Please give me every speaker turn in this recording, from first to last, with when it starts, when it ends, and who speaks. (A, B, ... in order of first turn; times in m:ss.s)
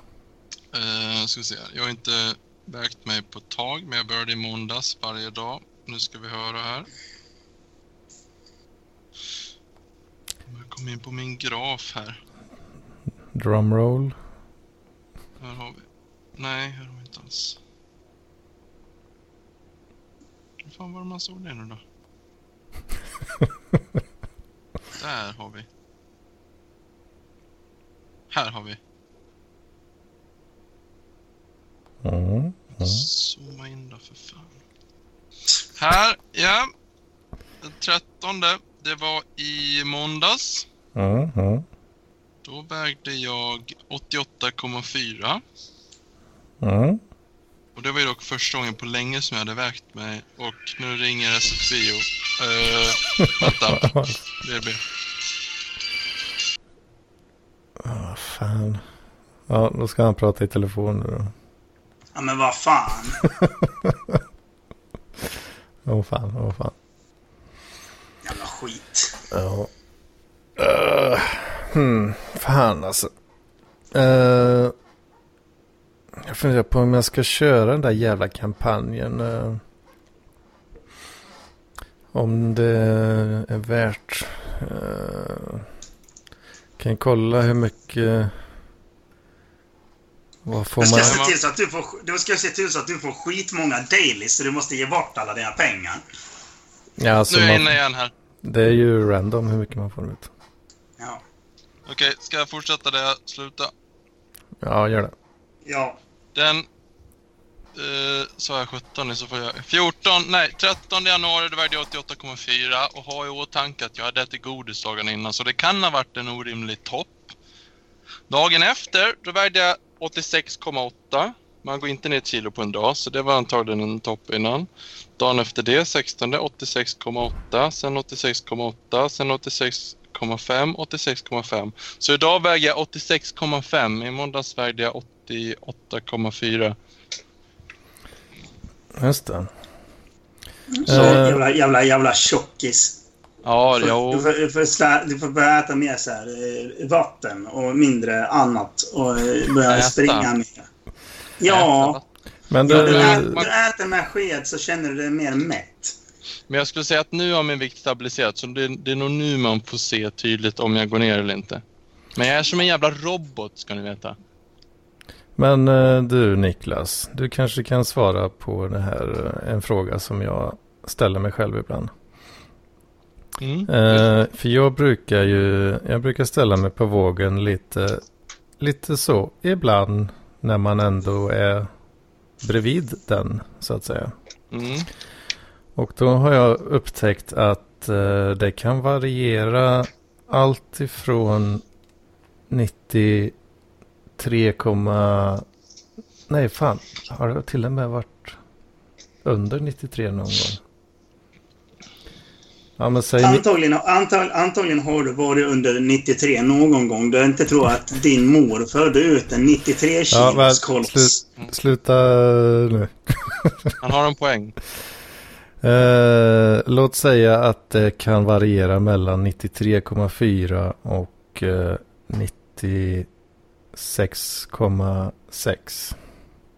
0:00.7-0:06.9 A
0:10.5-0:12.2 A
0:13.3-0:14.2 B
0:15.4-0:15.8 A
0:16.4-0:17.6 A
0:20.6-0:21.8 A
0:25.0-0:25.7 A
0:28.3-0:28.8 A
0:32.0-0:33.0 B
0:32.8-0:34.5 A
0:35.8-0:36.7 A
0:37.6-0:40.7 A
0:40.9-0:41.6 B
0:42.4-0:45.4 A
0:46.6-0:47.0 B
0:47.7-0:54.8 A
0:53.4-0:54.2 B
0:57.8-0:58.8 B
0:59.5-1:01.3 B
1:02.1-1:03.2 C
1:03.4-1:04.2 B
1:05.8-1:06.7 B
1:08.2-1:09.1 C
1:09.3-1:09.7 B
1:10.6-1:13.1 B
1:13.9-1:14.7 B
1:16.1-1:19.6 B
1:22.1-1:25.7 B
1:26.8-1:28.3 B
1:30.4-1:31.2 B
1:30.8-1:36.0 C
1:30.9-1:31.3 A
1:37.0-1:37.8 B
1:37.3-1:38.1 A
1:38.4-1:40.3 B
1:41.9-1:43.7 A
1:44.6-1:45.1 B
1:45.6-1:46.0 C
1:46.3-1:46.6 A
1:47.7-1:57.3 A
1:58.3-2:16.8 A
2:18.9-2:19.5 B
2:20.7-2:23.0 C
2:20.8-2:21.4 B
2:20.9-2:21.2 A
2:23.4-2:24.3 A
2:23.8-2:30.7 C
2:29.7-2:30.3 A
2:31.4-2:32.0 C
2:31.4-2:32.0 A
2:32.5-2:33.4 B
2:32.6-2:35.9 C
2:32.7-2:33.5 A
2:36.5-2:41.6 A
2:42.1-2:44.2 A
2:45.4-2:51.9 B
2:53.4-2:54.0 A
2:53.7-2:58.0 B
2:58.6-3:01.7 B
3:02.4-3:04.1 B
3:04.5-3:04.9 A
3:05.8-3:11.6 B
3:12.5-3:13.3 B
3:14.2-3:15.4 B
3:16.3-3:18.4 B
3:19.2-3:20.6 B
3:22.8-3:23.4 B
3:23.2-3:31.2 C
3:30.1-3:33.7 B
3:33.8-3:34.6 A
3:35.6-3:43.1 B
3:43.7-3:46.0 B